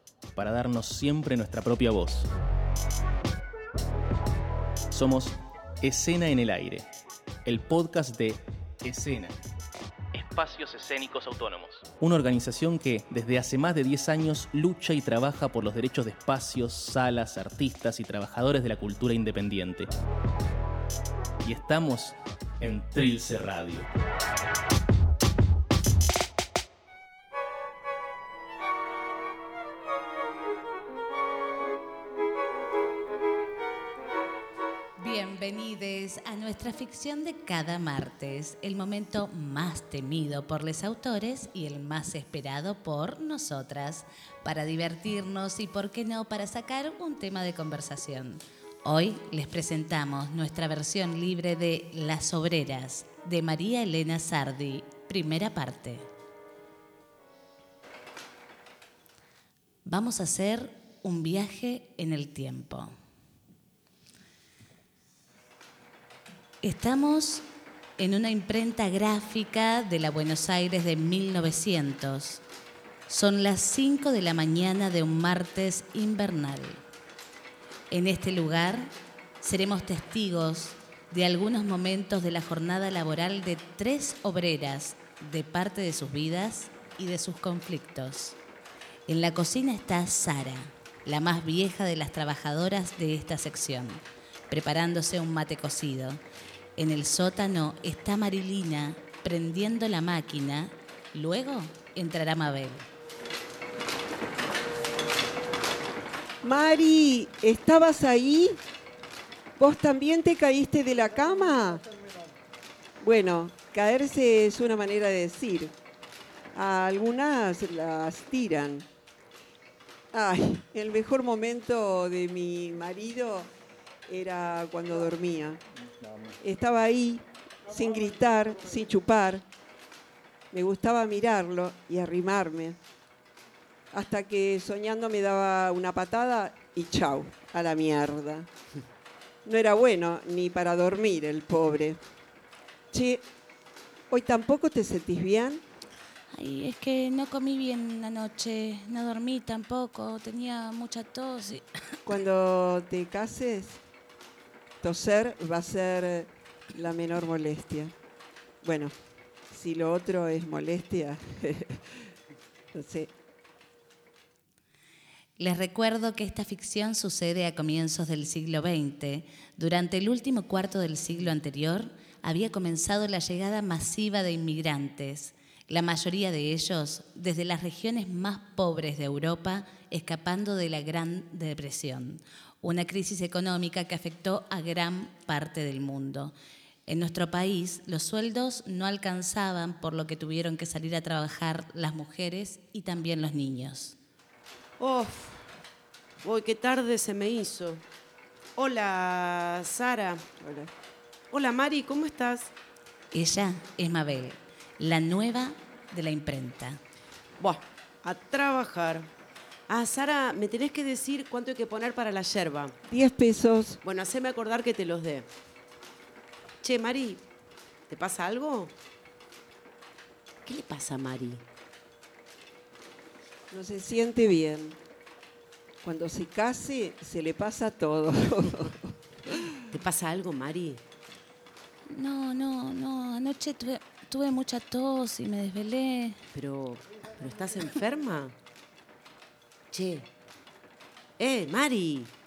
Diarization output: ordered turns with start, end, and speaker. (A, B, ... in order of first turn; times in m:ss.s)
0:00.4-0:02.3 A
0:04.9-0:06.8 A
0:07.4-0:09.4 A
0:10.1-0:19.9 A
0:21.4-0:23.9 A
0:35.0-0:56.1 B
0:59.8-1:02.9 B
1:06.6-1:07.4 B
1:08.0-1:12.4 B
1:13.1-1:16.8 B
1:17.9-1:18.9 B
1:19.4-1:28.4 B
1:29.1-1:36.2 B
1:36.8-1:42.8 B
1:46.4-1:48.6 C
1:49.6-1:51.8 C
1:53.0-1:55.7 C
1:56.5-1:58.8 C
2:00.1-2:03.5 C
2:04.1-2:05.6 C
2:06.4-2:09.4 C
2:10.5-2:12.8 C
2:13.9-2:18.5 C
2:19.4-2:22.0 C
2:22.9-2:23.2 C
2:24.1-2:25.6 C
2:26.3-2:31.9 B
2:32.0-2:33.8 C
2:34.8-2:37.9 C
2:38.6-2:38.9 C
2:39.5-2:41.8 C
2:42.7-2:43.1 C
2:45.4-3:06.3 B
3:06.9-3:13.9 B
3:14.8-3:15.5 D
3:16.2-3:17.8 D
3:18.6-3:20.2 D
3:20.4-3:20.7 C
3:21.3-3:22.5 D
3:23.1-3:26.8 B
3:27.4-3:29.1 D
3:29.7-3:32.7 D
3:32.9-3:33.8 C
3:33.8-3:35.3 D
3:36.6-3:37.2 D
3:37.9-3:38.7 D
3:40.4-3:41.4 D
3:43.5-3:44.8 C
3:45.8-3:49.6 C
3:49.7-3:50.8 D
3:51.9-3:56.2 B
3:56.3-3:58.3 D
3:59.7-4:00.1 D
4:01.2-4:02.1 D